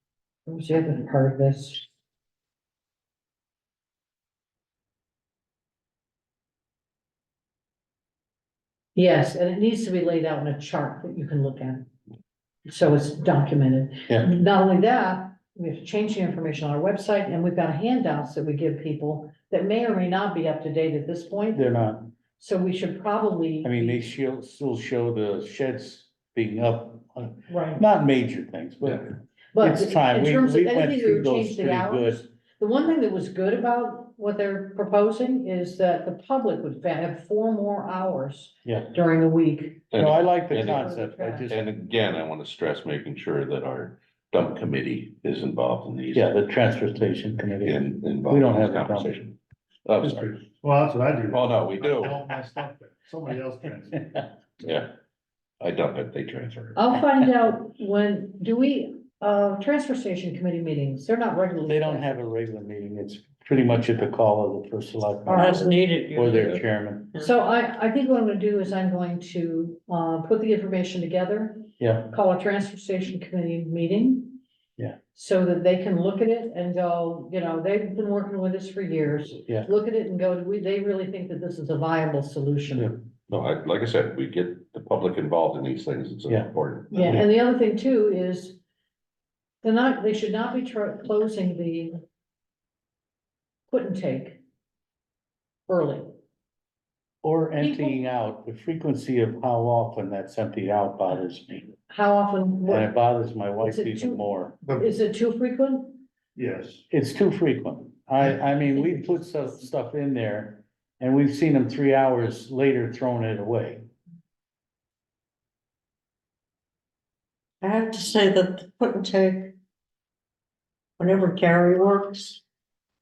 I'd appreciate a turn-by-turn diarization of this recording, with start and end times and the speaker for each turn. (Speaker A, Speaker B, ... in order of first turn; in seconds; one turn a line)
Speaker A: 0.5-1.9
Speaker A: 8.9-11.9
Speaker A: 12.7-21.7
Speaker B: 14.1-14.3
Speaker B: 21.5-22.1
Speaker A: 22.4-24.0
Speaker B: 23.6-32.2
Speaker A: 27.5-27.8
Speaker A: 29.5-41.5
Speaker B: 38.6-38.9
Speaker C: 39.9-40.8
Speaker B: 39.9-41.6
Speaker C: 41.5-46.3
Speaker B: 46.1-49.1
Speaker C: 47.6-50.5
Speaker D: 50.6-54.0
Speaker C: 51.3-52.2
Speaker C: 54.6-54.9
Speaker C: 55.6-56.8
Speaker A: 56.8-62.2
Speaker B: 61.7-67.1
Speaker A: 65.3-65.6
Speaker E: 65.3-66.6
Speaker A: 67.2-74.4
Speaker B: 71.8-72.1
Speaker A: 75.1-83.0
Speaker C: 83.3-87.2
Speaker A: 86.9-88.6
Speaker A: 89.6-92.0
Speaker A: 93.7-94.4
Speaker A: 95.7-96.1
Speaker B: 97.2-101.7
Speaker A: 97.6-98.0
Speaker A: 101.9-102.9
Speaker B: 102.7-104.6
Speaker A: 103.6-104.2
Speaker A: 104.7-106.0
Speaker D: 106.4-106.8
Speaker B: 106.9-113.8
Speaker E: 117.6-119.5
Speaker E: 121.0-122.4